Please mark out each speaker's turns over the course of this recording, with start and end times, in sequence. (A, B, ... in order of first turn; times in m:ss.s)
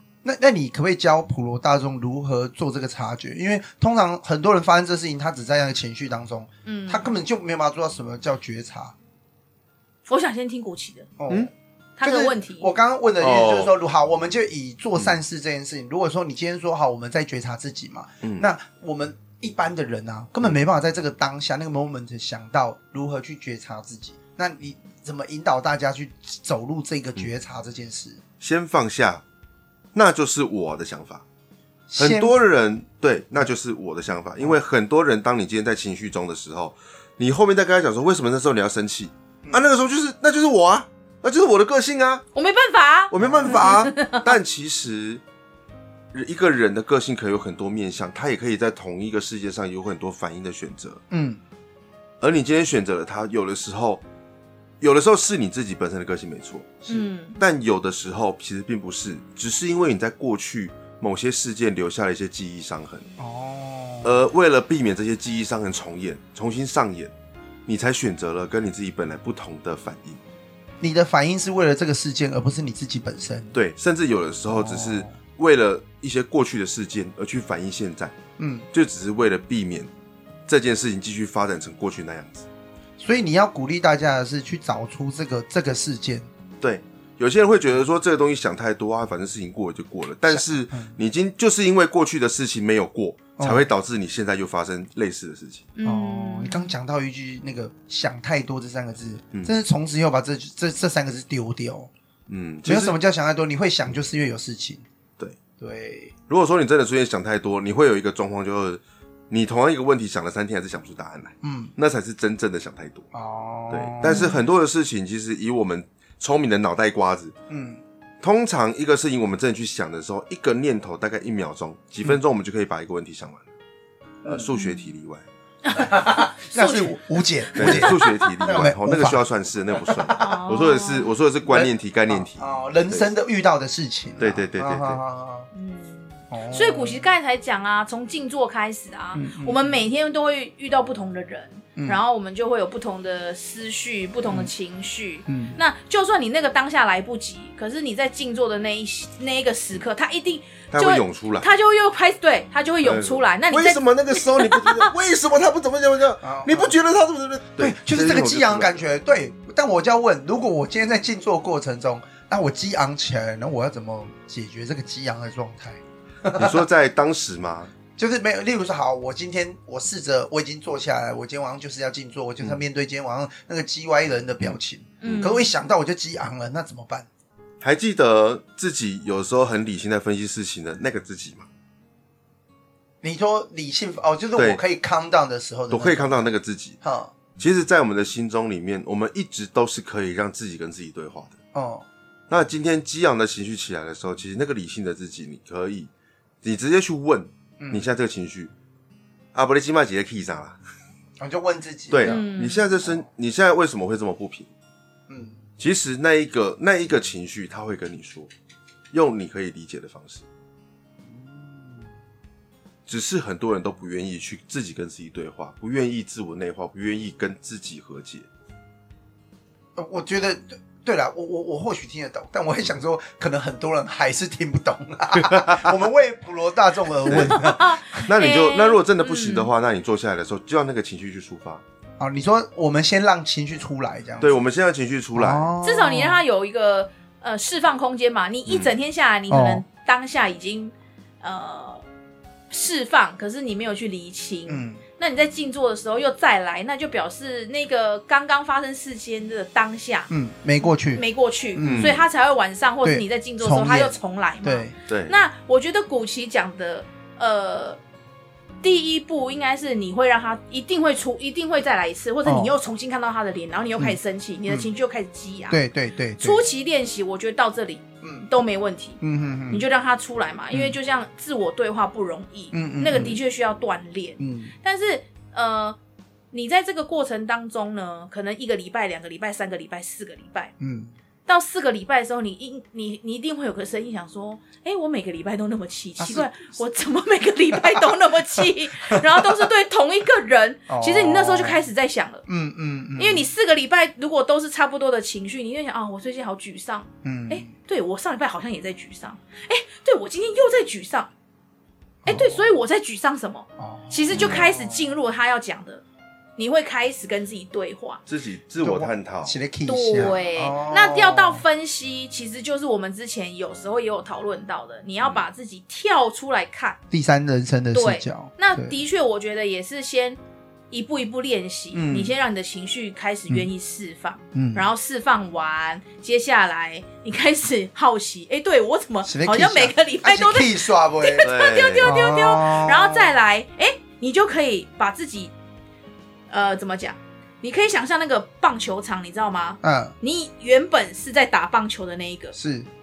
0:00.2-0:08.9 A
0:06.7-0:07.1 B
0:10.1-0:11.1 B
0:11.2-0:11.5 A
0:12.0-0:12.7 B
0:12.0-0:28.2 A
0:13.2-0:13.7 C
0:18.2-0:18.5 C
0:28.4-0:29.2 C
0:29.9-0:31.2 C
0:31.9-0:32.3 A
0:32.0-0:42.2 C
0:42.4-0:44.3 B
0:43.1-0:45.2 C
0:43.2-0:43.8 A
0:46.1-0:51.0 C
0:51.1-0:51.4 A
0:52.2-0:54.0 C
0:54.8-1:03.1 C
0:56.9-0:57.4 B
1:03.2-1:04.2 A
1:04.0-1:07.1 C
1:07.7-1:10.2 C
1:10.8-1:13.5 A
1:13.5-1:18.2 C
1:14.5-1:15.1 A
1:18.4-1:18.7 A
1:18.7-1:19.9 C
1:20.5-1:22.5 C
1:23.0-1:26.3 A
1:26.6-1:35.7 C
1:30.3-1:31.0 A
1:33.4-1:33.6 A
1:35.8-1:36.7 B
1:35.8-1:41.9 A
1:42.3-1:43.0 C
1:42.7-1:44.8 A
1:45.6-1:46.1 A
1:46.3-1:53.1 C
1:51.4-1:51.7 A
1:53.1-1:54.4 A
1:53.7-1:57.4 C
1:54.1-1:54.4 B
1:57.5-1:57.8 A
1:58.2-2:03.5 C
2:04.2-2:05.2 C
2:04.6-2:04.8 B
2:05.6-2:07.0 B
2:05.8-2:09.2 A
2:07.5-2:08.5 B
2:07.6-2:13.1 C
2:09.8-2:10.4 A
2:10.2-2:11.1 B
2:11.5-2:15.5 A
2:14.2-2:15.0 C
2:15.5-2:34.9 B
2:16.3-2:17.1 A
2:19.2-2:19.9 A
2:21.8-2:22.0 A
2:25.3-2:25.6 A
2:30.7-2:31.5 C
2:32.8-2:38.7 C
2:36.2-2:36.8 A
2:37.6-2:46.6 A
2:46.3-2:47.7 C
2:48.0-2:57.1 A
2:54.4-2:55.3 C
2:55.0-2:55.5 B
2:57.6-3:01.5 C
3:03.0-3:06.3 A
3:04.4-3:04.6 C
3:05.7-3:06.8 C
3:06.8-3:07.1 A
3:07.4-3:11.4 C
3:11.5-3:11.8 A
3:12.3-3:15.9 C
3:16.4-3:18.5 C
3:17.6-3:17.9 A
3:19.3-3:20.6 C
3:21.2-3:22.2 A
3:21.9-3:24.5 C
3:22.0-3:22.7 B
3:25.1-3:25.4 A
3:25.6-3:28.3 C
3:28.9-3:30.2 C
3:31.0-3:31.9 A
3:32.9-3:38.3 C
3:39.8-3:48.0 A
3:45.2-3:45.8 C
3:47.1-3:49.5 B
3:47.1-3:51.6 C
3:52.0-3:54.4 A
3:54.2-3:55.5 C
3:55.2-3:56.2 A
3:55.6-4:01.8 B
3:58.5-3:58.7 C
3:59.3-3:59.6 A
4:02.5-4:10.1 B
4:04.5-4:04.8 A
4:10.1-4:12.0 A
4:10.6-4:17.8 B
4:11.6-4:12.1 C
4:12.8-4:14.7 A
4:14.9-4:15.2 C
4:18.6-4:25.6 B
4:22.2-4:22.6 A
4:23.8-4:24.7 A
4:25.5-4:26.4 A
4:26.2-4:35.8 B
4:28.0-4:28.3 A
4:29.0-4:29.7 A
4:30.5-4:30.8 A
4:32.5-4:33.2 A
4:34.2-4:34.5 A
4:36.3-4:40.5 B
4:40.6-4:40.9 A
4:41.3-4:52.2 B
4:46.0-4:46.3 A
4:47.6-4:49.3 A
4:50.7-4:51.6 A
4:52.3-4:53.3 A
4:53.0-5:01.1 B
4:57.0-4:57.5 A
5:02.0-5:02.5 A
5:02.1-5:05.8 B
5:03.6-5:04.9 A
5:04.1-5:04.4 C
5:06.4-5:08.0 B
5:08.1-5:09.4 C
5:08.6-5:11.4 A
5:09.6-5:16.8 B
5:16.9-5:18.7 A
5:17.7-5:20.2 B
5:20.7-5:35.3 B
5:21.7-5:22.1 A
5:24.3-5:24.7 A
5:29.0-5:33.1 A
5:31.2-5:31.9 C
5:36.3-5:42.4 B
5:39.6-5:40.0 A
5:42.4-5:42.7 A